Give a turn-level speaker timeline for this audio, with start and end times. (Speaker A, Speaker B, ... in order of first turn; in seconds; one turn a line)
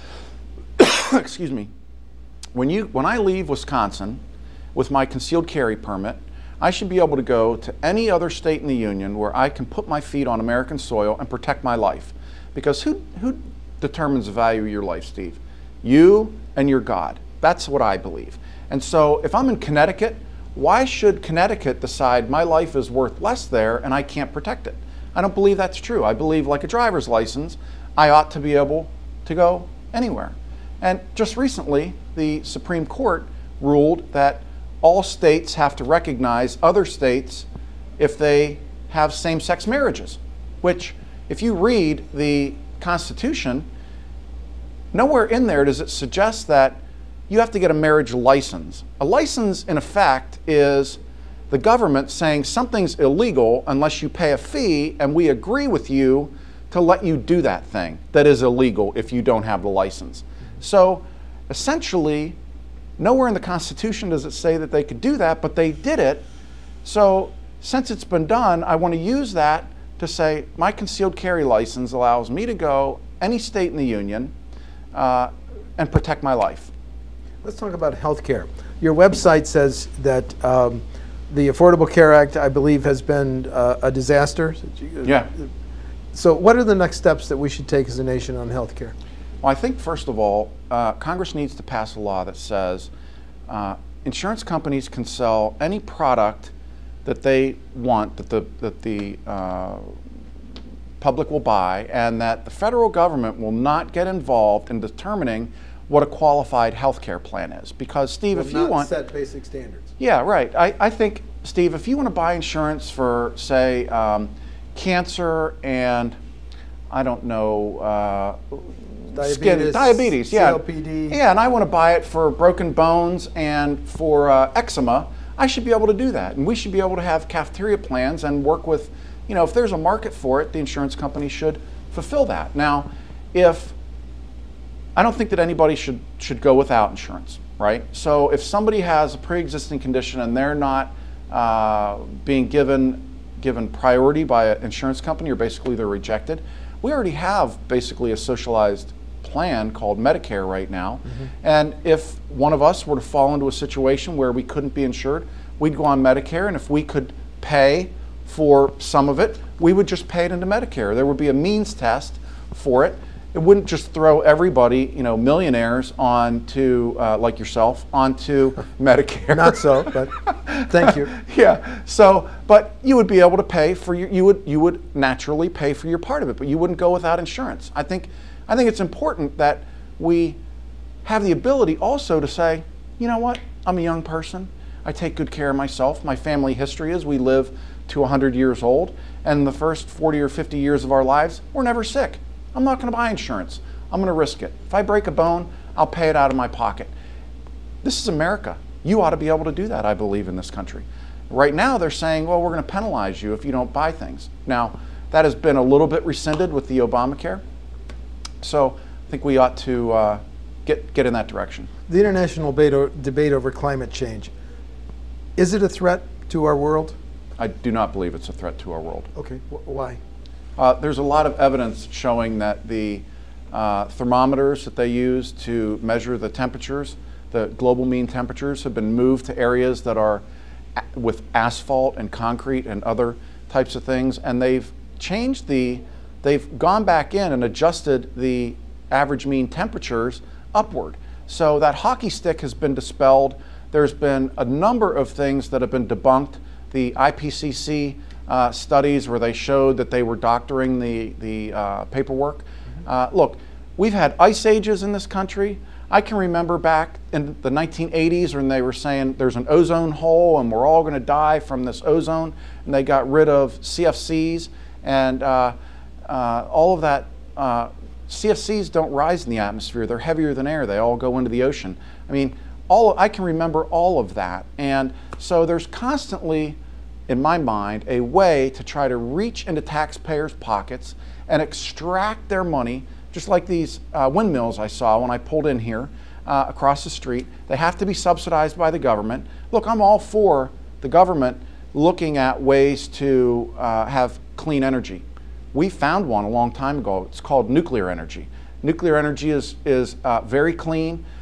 Speaker A: 0.8-1.7
Speaker A: 2.5-4.2
Speaker A: 4.8-37.5
Speaker A: 38.0-43.7
Speaker A: 44.9-62.4
Speaker A: 63.0-66.2
Speaker A: 66.8-74.3
Speaker A: 74.9-76.7
Speaker B: 77.4-85.5
Speaker B: 86.1-89.0
Speaker A: 89.4-92.9
Speaker A: 93.5-96.5
Speaker A: 97.0-100.0
Speaker A: 101.0-108.9
Speaker B: 108.3-109.9
Speaker A: 110.0-116.2
Speaker A: 116.9-133.8
Speaker B: 119.1-121.2
Speaker A: 135.0-180.4
Speaker B: 169.3-170.1
Speaker B: 170.7-171.1
Speaker A: 181.0-196.9
Speaker A: 197.8-207.4
Speaker A: 208.4-211.7
Speaker B: 211.9-214.3
Speaker B: 215.4-217.0
Speaker A: 217.4-219.1
Speaker B: 219.2-220.0
Speaker A: 220.6-230.2
Speaker A: 230.8-301.0